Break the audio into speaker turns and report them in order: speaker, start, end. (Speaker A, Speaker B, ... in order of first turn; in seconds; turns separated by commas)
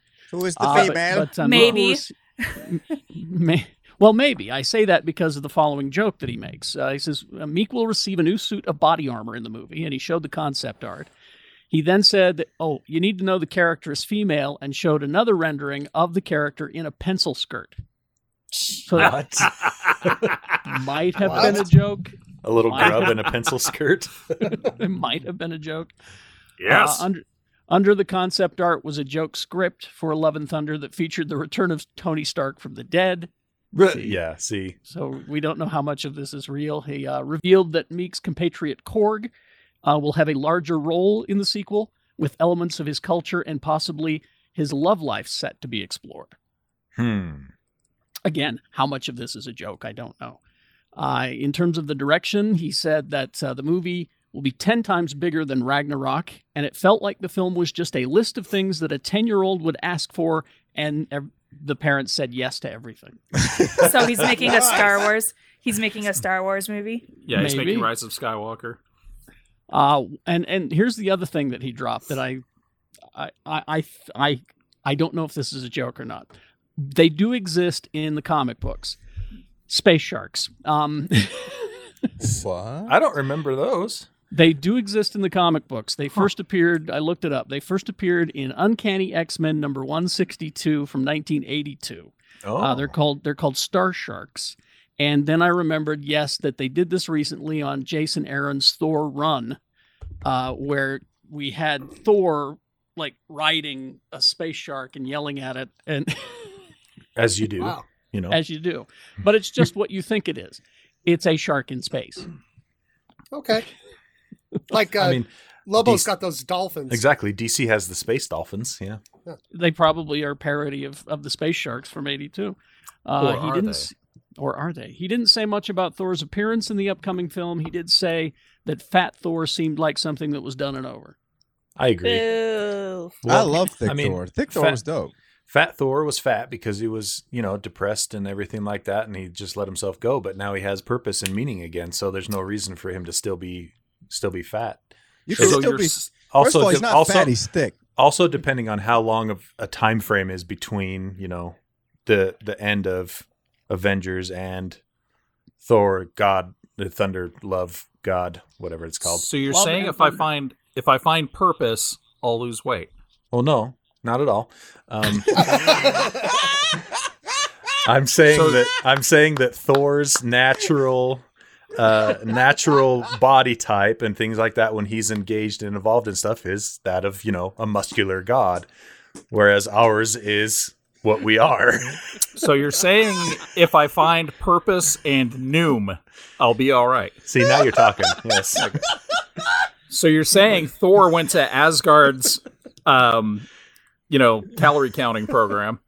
Speaker A: 0.3-1.8, Speaker B: 0.6-11.1, Speaker C: 1.1-2.5, Speaker B: 11.7-17.8, Speaker B: 18.8-19.4, Speaker D: 18.9-20.4, Speaker B: 20.6-23.3, Speaker E: 21.3-21.6, Speaker D: 21.3-21.6, Speaker D: 22.4-24.6, Speaker B: 24.5-25.9, Speaker D: 26.6-27.0, Speaker B: 26.7-33.3, Speaker D: 33.7-34.8, Speaker B: 33.9-34.2, Speaker B: 34.9-39.3, Speaker B: 39.8-46.4, Speaker D: 47.0-47.5, Speaker B: 48.2-50.4, Speaker B: 51.0-63.2, Speaker C: 63.7-67.1, Speaker F: 67.2-68.8, Speaker B: 67.3-67.9, Speaker B: 69.7-72.4, Speaker B: 73.1-79.0, Speaker B: 79.7-81.8, Speaker A: 82.2-83.0, Speaker D: 82.9-84.1, Speaker B: 84.3-99.6, Speaker D: 92.4-93.0, Speaker B: 100.2-106.5, Speaker D: 107.2-108.4, Speaker E: 107.6-107.9, Speaker B: 108.3-112.2, Speaker E: 113.3-113.7, Speaker E: 114.7-117.1, Speaker D: 115.0-116.1, Speaker D: 116.9-119.0, Speaker B: 119.5-131.2, Speaker F: 123.2-123.8, Speaker D: 131.8-132.3, Speaker C: 132.0-133.1, Speaker D: 133.2-134.8, Speaker A: 133.3-135.1, Speaker D: 135.5-147.3, Speaker A: 145.3-147.8, Speaker F: 145.3-146.1, Speaker D: 147.9-154.8, Speaker D: 155.6-159.3, Speaker F: 159.1-162.9, Speaker B: 159.5-160.2, Speaker D: 163.3-165.9, Speaker E: 165.4-166.4, Speaker D: 167.8-171.2, Speaker F: 168.3-168.7, Speaker D: 171.8-178.7, Speaker D: 179.3-182.0, Speaker F: 182.4-187.2, Speaker D: 187.2-188.8, Speaker F: 189.9-193.5, Speaker F: 194.1-195.8